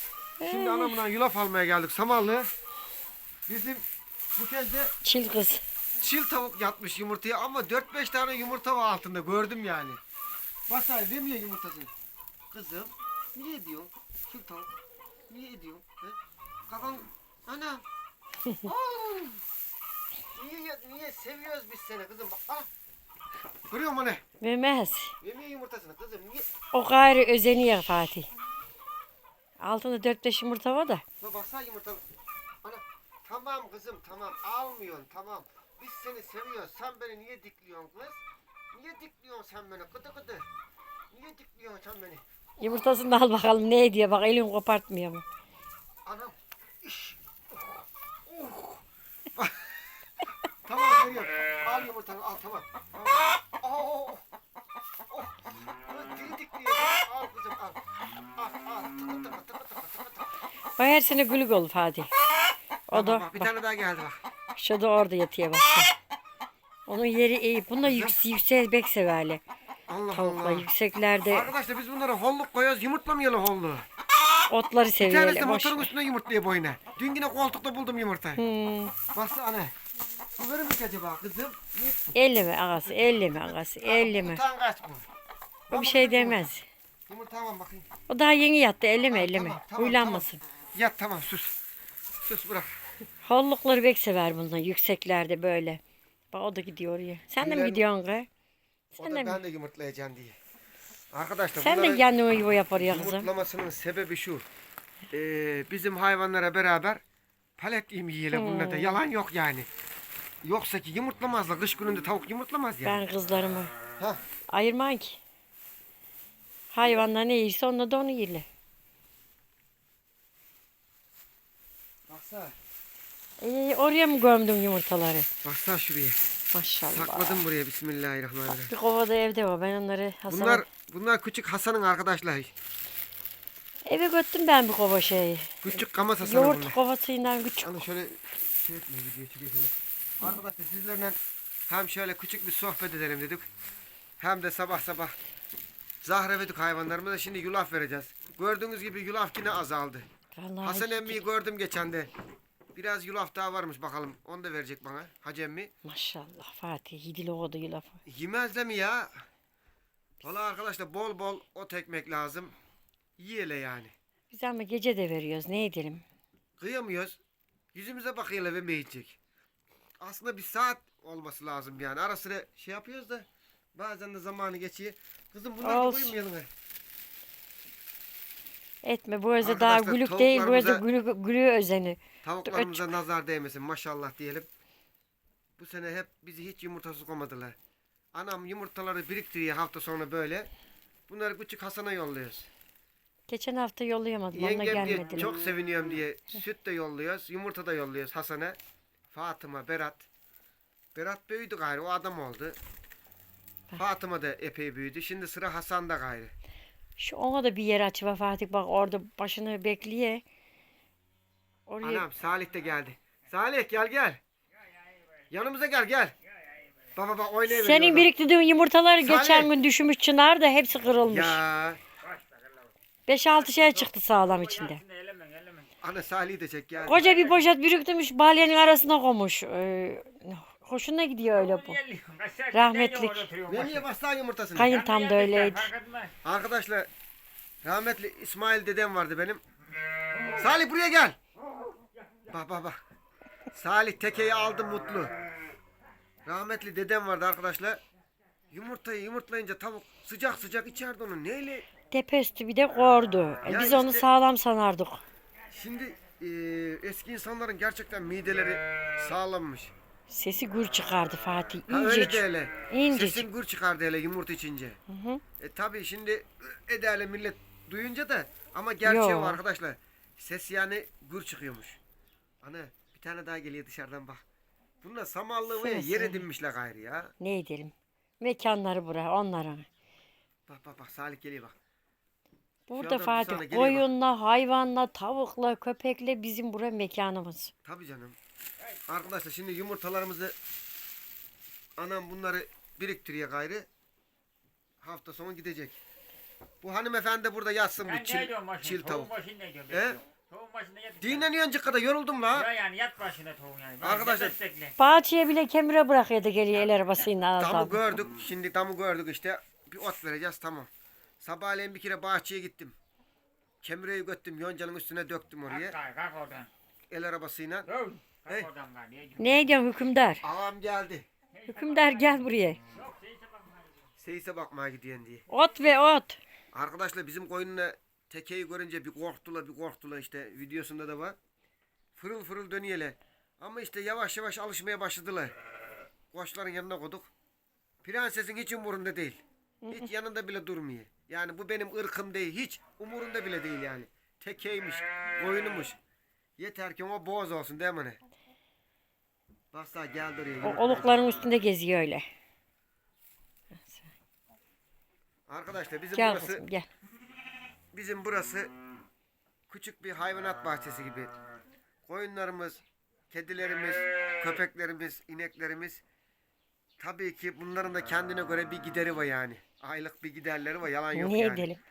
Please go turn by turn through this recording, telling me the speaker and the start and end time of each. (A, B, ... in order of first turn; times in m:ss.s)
0:00.4-0:01.0 A
0:00.4-0:02.5 B
0:03.5-0:03.8 B
0:04.4-0:05.0 B
0:05.0-0:05.6 A
0:06.0-0:10.0 B
0:10.7-0:11.9 B
0:12.5-0:14.7 B
0:15.3-0:16.2 B
0:16.7-0:17.8 B
0:18.6-0:19.4 B
0:20.3-0:22.7 B
0:23.7-0:24.2 B
0:24.4-0:25.1 A
0:25.2-0:26.4 B
0:26.7-0:28.3 A
0:29.6-0:31.0 A
0:31.2-0:32.0 B
0:32.6-0:40.4 B
0:41.1-0:42.2 B
0:42.6-0:45.2 A
0:46.0-0:47.2 B
0:48.3-0:48.8 B
0:49.4-0:49.7 B
0:50.7-0:54.2 B
0:55.1-0:57.8 B
0:58.4-1:00.3 B
1:00.8-1:02.1 A
1:02.9-1:03.5 A
1:02.9-1:04.2 B
1:04.6-1:05.9 A
1:06.9-1:09.4 A
1:07.8-1:08.2 B
1:09.9-1:10.7 B
1:10.1-1:11.5 A
1:11.2-1:13.9 B
1:14.5-1:15.9 A
1:15.0-1:18.4 B
1:18.4-1:19.0 A
1:19.1-1:19.7 B
1:20.4-1:22.2 B
1:22.1-1:24.4 A
1:22.8-1:25.1 B
1:25.7-1:26.5 B
1:25.7-1:26.7 A
1:27.1-1:27.9 B
1:28.1-1:30.4 A
1:29.1-1:31.6 B
1:32.2-1:32.8 B
1:33.2-1:35.8 A
1:36.3-1:38.3 A
1:37.4-1:37.8 B
1:38.9-1:39.4 A
1:39.0-1:40.4 B
1:41.1-1:42.0 B
1:41.6-1:43.3 A
1:42.8-1:44.5 B
1:45.1-1:47.0 B
1:47.6-1:49.7 B
1:48.3-1:49.0 A
1:50.4-1:53.0 B
1:52.8-1:53.7 A
1:54.5-1:55.2 A
1:56.7-1:58.5 A
2:02.1-2:02.6 B
2:03.4-2:05.3 A
2:05.4-2:06.2 B
2:06.5-2:07.4 A
2:06.9-2:08.7 B
2:08.7-2:10.7 A
2:10.3-2:12.5 B
2:13.8-2:17.8 A
2:15.6-2:16.8 B
2:17.6-2:23.5 B
2:24.2-2:25.2 B
2:26.0-2:30.1 B
2:30.3-2:31.2 A
2:30.6-2:32.1 B
2:32.8-2:35.7 B
2:35.8-2:38.0 A
2:38.0-2:39.2 B
2:40.2-2:42.5 B
2:43.2-2:43.9 B
2:44.3-2:46.0 A
2:46.6-2:47.2 B
2:47.7-2:49.2 B
2:50.0-2:56.5 B
2:55.6-2:56.2 A
2:58.8-3:02.9 A
2:59.4-3:00.8 B
3:02.2-3:04.5 B
3:05.6-3:07.6 B
3:08.1-3:10.5 B
3:11.1-3:12.5 B
3:13.3-3:15.4 A
3:14.3-3:18.6 B
3:19.1-3:20.1 B
3:20.9-3:22.6 B
3:23.8-3:26.3 B
3:27.0-3:30.2 A
3:31.7-3:32.0 A
3:31.8-3:34.2 B
3:34.5-3:35.3 C
3:35.3-3:36.1 B
3:36.2-3:37.0 C
3:37.0-3:38.1 B
3:37.5-3:41.4 A
3:39.0-3:39.6 B
3:41.0-3:41.8 B
3:42.0-3:42.7 C
3:43.1-3:44.8 A
3:43.3-3:45.7 C
3:45.8-3:47.0 B
3:46.8-3:51.8 A
3:46.9-3:47.5 C
3:51.3-3:53.8 C
3:52.5-3:53.3 A
3:53.5-3:54.8 B
3:54.5-3:55.7 A
3:54.6-3:56.2 C
3:56.2-3:56.9 B
3:57.6-3:59.4 B
4:00.3-4:01.2 B
4:02.3-4:02.8 B
4:03.5-4:05.1 B
4:06.2-4:07.8 B
4:08.5-4:11.7 B
4:11.9-4:15.0 A
4:13.4-4:14.0 B
4:15.5-4:19.7 B
4:20.1-4:23.2 A
4:21.7-4:24.8 B
4:24.9-4:25.2 A
4:25.4-4:31.8 B
4:28.8-4:29.4 A
4:32.4-4:34.2 B
4:34.8-4:37.1 B
4:35.5-4:36.2 A
4:37.2-4:39.7 A
4:40.5-4:41.6 B
4:42.7-4:47.5 A
4:42.8-4:43.9 B
4:47.6-4:48.2 B
4:48.9-4:50.4 B
4:51.8-4:53.7 B
4:54.8-4:55.8 B
4:56.6-4:59.1 B
4:57.8-5:01.3 C
4:59.7-5:00.0 B
5:01.0-5:02.5 B
5:02.3-5:04.7 C
5:03.8-5:04.4 B
5:04.8-5:07.8 A
5:06.5-5:07.1 C
5:07.4-5:10.7 B
5:11.2-5:12.8 B
5:13.6-5:15.8 B
5:15.5-5:16.5 C
5:16.9-5:17.7 B
5:17.7-5:19.5 C
5:19.2-5:20.2 A
5:20.2-5:21.1 B
5:21.3-5:22.1 C
5:21.5-5:22.6 A
5:22.7-5:23.9 C
5:24.0-5:25.2 B
5:25.3-5:26.2 A
5:26.5-5:31.2 B
5:32.0-5:35.3 B
5:36.1-5:37.1 B
5:37.8-5:45.8 B
5:39.6-5:39.9 A
5:46.4-5:48.0 B
5:49.5-5:51.0 B
5:50.4-5:52.1 A
5:53.6-5:53.9 A
5:55.3-5:56.5 B
5:55.9-5:56.7 A
5:57.7-5:58.5 B
5:59.5-6:01.1 B
6:01.9-6:05.8 B
6:06.8-6:11.5 B
6:10.9-6:11.6 A